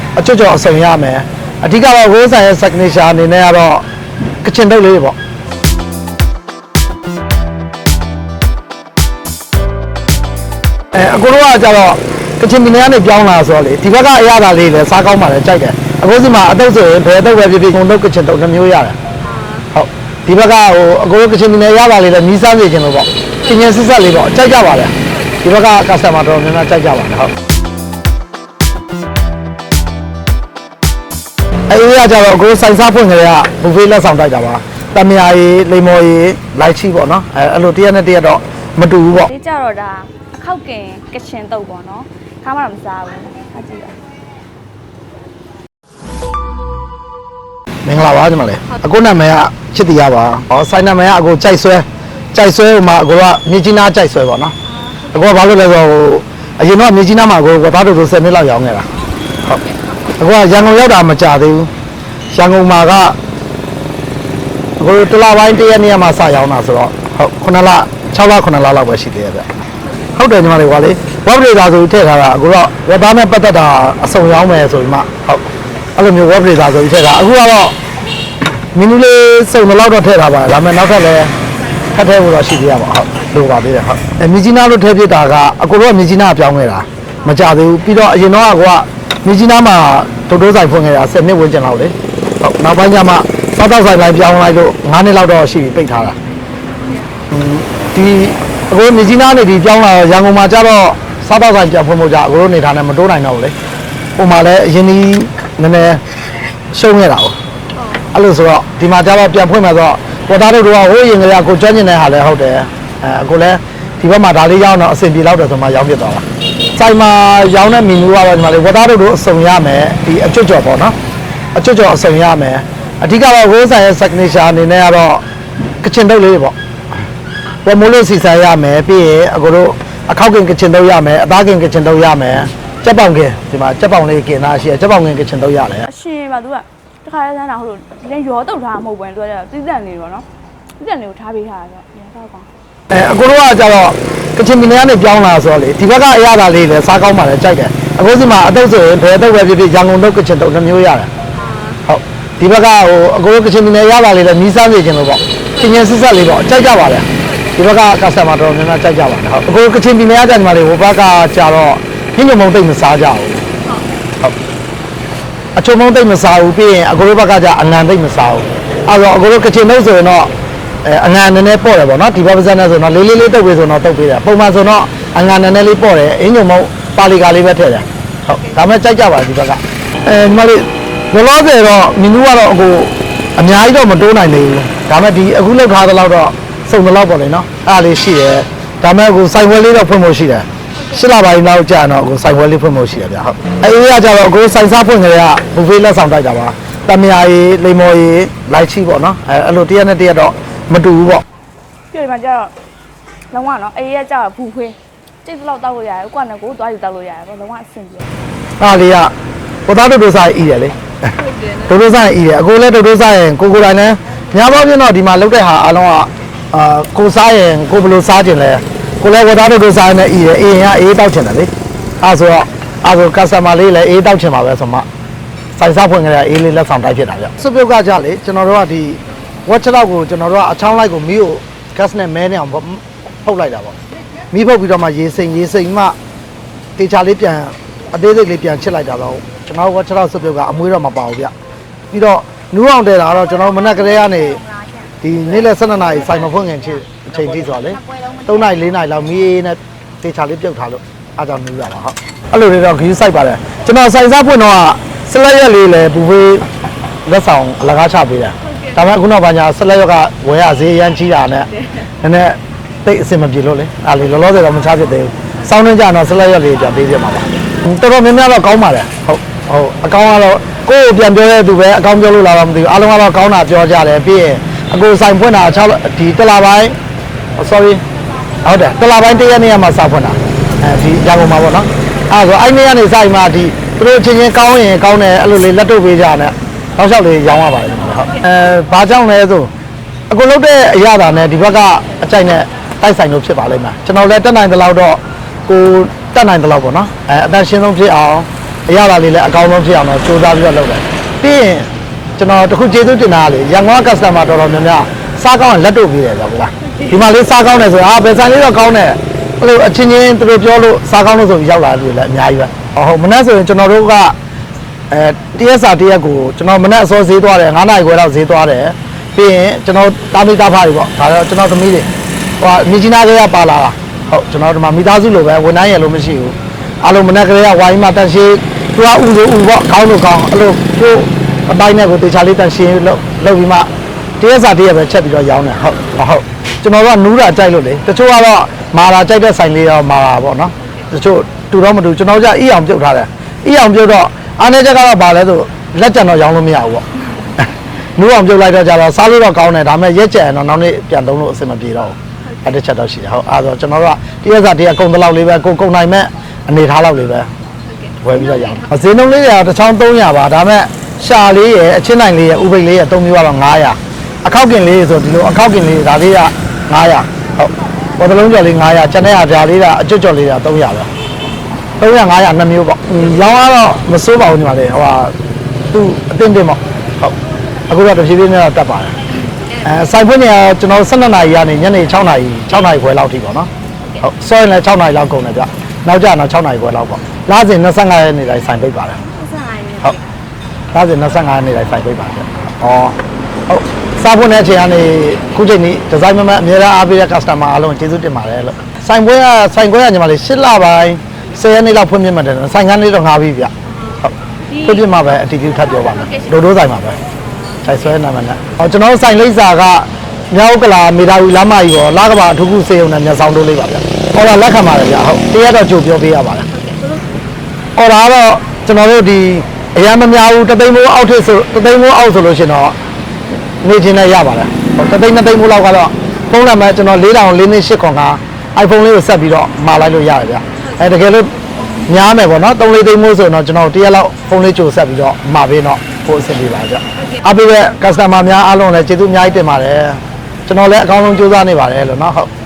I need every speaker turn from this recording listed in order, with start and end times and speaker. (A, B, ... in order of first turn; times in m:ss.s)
0:00.2-0:03.8 A
0:04.4-0:05.2 A
0:10.9-0:19.0 A
0:19.2-0:19.7 B
0:19.7-0:27.3 A
0:23.4-0:23.7 B
0:25.0-0:25.4 B
0:31.7-0:39.3 A
0:39.2-0:44.0 B
0:47.8-0:54.6 A
0:54.8-0:55.2 B
0:55.1-0:58.9 A
1:00.2-1:01.7 A
1:02.3-1:03.2 A
1:04.8-1:09.4 A
1:09.8-1:10.1 B
1:10.2-1:15.4 A
1:16.0-1:17.8 A
1:18.7-1:21.3 A
1:21.9-1:36.2 A
1:36.8-1:37.1 B
1:37.3-1:43.5 A
1:44.2-1:46.0 A
1:46.7-1:47.4 A
1:47.7-1:48.1 B
1:48.1-2:01.0 A
2:01.6-2:05.2 A
2:05.8-2:06.6 A
2:07.6-2:15.9 A
2:15.8-2:20.3 B
2:20.8-2:22.5 B
2:22.9-2:31.1 A
2:31.3-2:31.8 B
2:31.9-2:43.4 A
2:37.2-2:37.6 B
2:43.6-2:43.9 B
2:45.6-2:50.3 A
2:50.8-3:21.2 A
3:21.9-3:22.5 B
3:23.3-3:28.1 B
3:28.6-3:29.1 A
3:29.7-3:30.8 A
3:31.2-3:31.7 B
3:31.6-3:44.9 A
3:45.6-3:53.8 A
3:54.3-3:56.0 A
3:56.8-4:01.3 A
4:01.9-4:04.4 A
4:05.0-4:16.5 A
4:17.1-4:21.5 A
4:22.0-4:36.8 A
4:37.4-4:37.8 A
4:38.4-4:49.5 A
4:50.1-5:14.2 A
5:14.9-5:33.7 A
5:34.2-5:46.8 A
5:47.4-5:57.3 A
5:57.7-5:58.6 B
5:58.0-6:10.9 A
6:11.8-6:15.1 A
6:15.7-6:17.1 A
6:17.7-6:18.9 A
6:19.3-6:19.6 B
6:19.6-6:23.5 A
6:24.0-6:29.0 A
6:29.0-6:30.0 B
6:30.7-6:33.0 A
6:33.5-6:43.5 A
6:43.6-6:44.7 B
6:44.6-6:47.0 A
6:45.9-6:46.3 B
6:47.2-6:47.6 B
6:47.6-6:56.5 A
6:56.5-6:57.1 B
6:57.8-7:02.8 A
7:03.6-7:11.3 A
7:11.9-7:22.3 A